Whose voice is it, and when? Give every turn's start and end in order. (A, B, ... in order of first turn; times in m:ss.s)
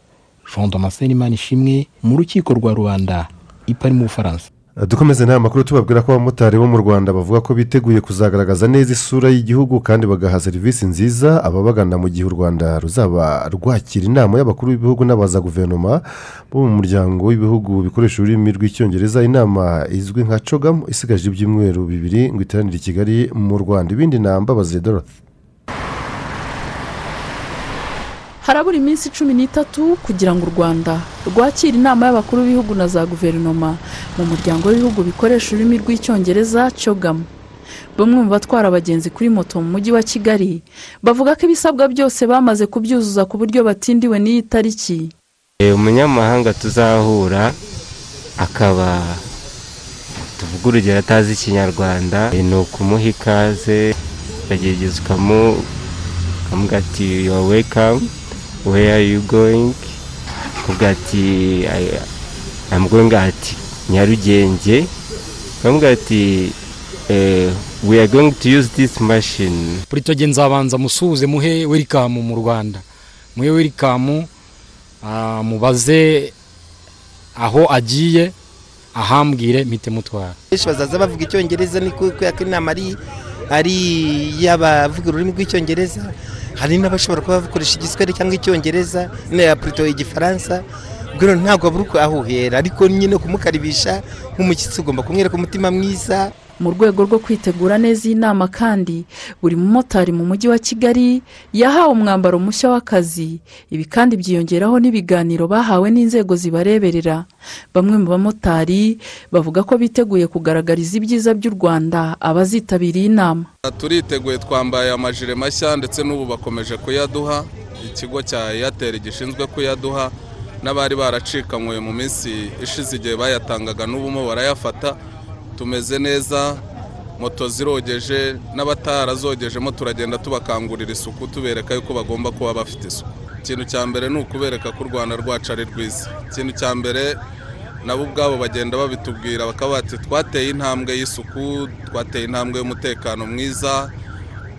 0:00.4-0:04.5 A
0:04.8-0:25.1 B
0:28.4-0:37.3 C
0:38.0-0:45.1 C
0:45.6-0:47.6 D
0:48.4-0:49.2 D
0:50.4-0:53.9 D
0:54.5-0:55.7 D
0:56.5-0:58.1 D
0:58.6-1:00.0 D
1:00.6-1:02.0 D
1:02.7-1:04.9 D
1:05.6-1:06.6 D
1:07.1-1:09.8 D
1:09.9-1:14.3 E
1:15.0-1:16.3 E
1:17.4-1:18.4 E
1:19.0-1:20.4 E
1:20.5-1:23.0 F
1:23.5-1:30.6 F
1:31.1-1:36.3 F
1:36.6-1:53.5 C
1:53.7-2:05.0 G
2:05.6-2:06.6 G
2:07.2-2:17.2 G
2:17.8-2:23.9 G